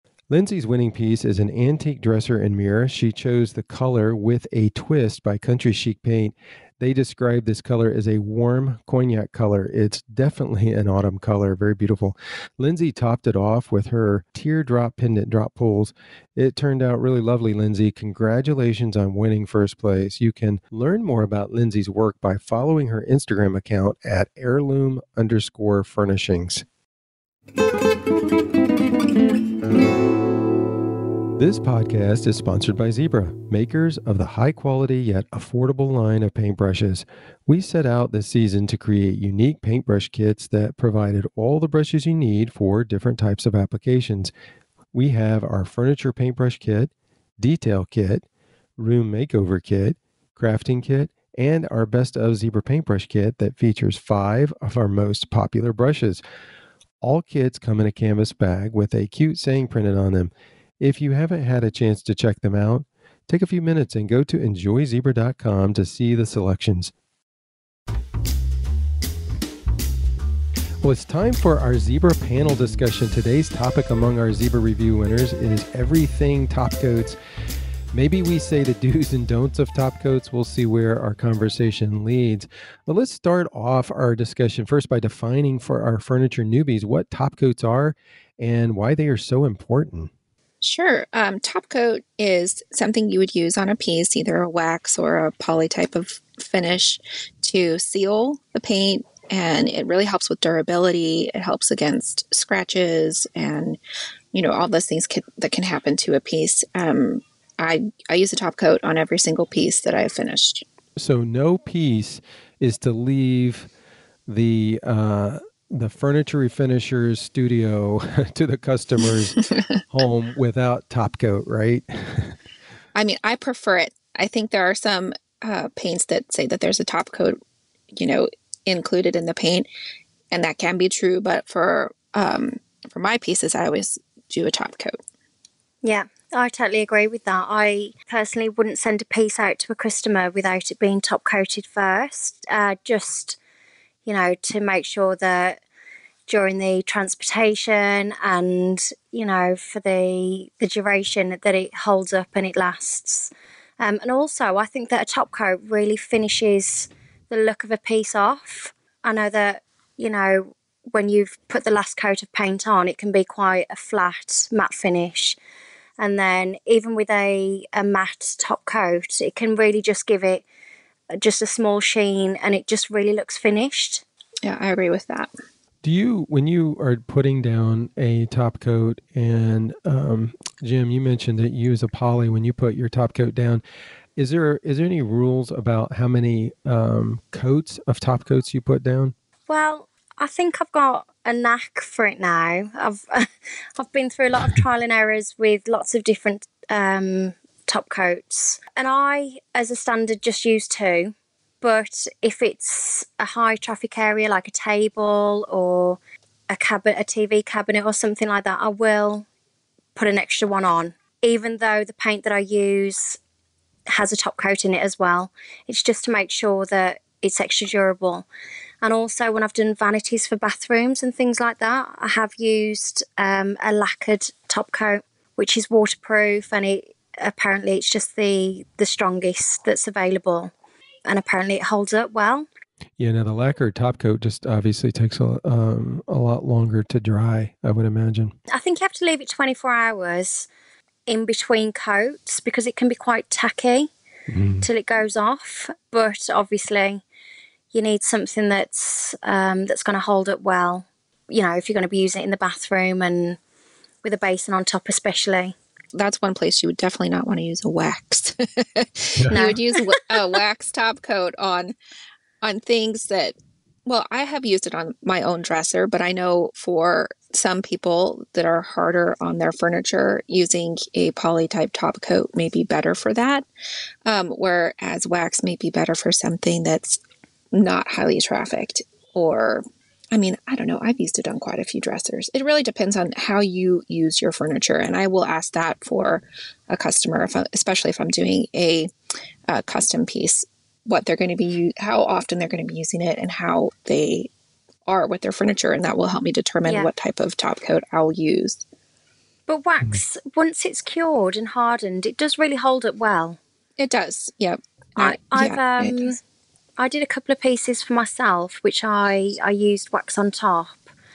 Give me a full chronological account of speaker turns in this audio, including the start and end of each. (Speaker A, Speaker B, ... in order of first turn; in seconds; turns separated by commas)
Speaker A: 0.3-26.6, Speaker A: 31.4-44.3, Speaker A: 44.9-48.2, Speaker A: 48.8-56.2, Speaker A: 57.0-66.9, Speaker A: 70.8-77.2, Speaker A: 77.9-90.1, Speaker B: 90.6-103.8, Speaker B: 104.3-110.6, Speaker A: 111.0-113.7, Speaker A: 114.3-122.4, Speaker B: 123.0-127.4, Speaker B: 128.0-129.7, Speaker B: 130.3-135.0, Speaker C: 135.8-143.4, Speaker C: 144.1-145.6, Speaker C: 146.3-165.4, Speaker C: 166.0-170.4, Speaker C: 171.2-174.0, Speaker B: 174.4-175.3, Speaker A: 175.8-183.6, Speaker A: 184.2-189.1, Speaker C: 189.5-209.3, Speaker C: 209.9-213.2, Speaker C: 213.9-218.3, Speaker C: 218.8-230.5, Speaker C: 231.1-232.5, Speaker A: 233.0-238.3, Speaker C: 238.5-240.5, Speaker C: 241.1-243.9, Speaker A: 244.3-244.7, Speaker C: 244.6-247.0, Speaker C: 247.7-253.4, Speaker C: 254.0-255.6, Speaker B: 255.9-261.7, Speaker C: 259.3-259.8, Speaker B: 262.4-273.5, Speaker B: 274.1-277.0, Speaker B: 277.5-288.9, Speaker B: 289.5-294.3, Speaker B: 294.9-298.6, Speaker C: 299.5-303.4, Speaker B: 303.8-306.1, Speaker C: 305.0-306.2, Speaker C: 306.8-310.9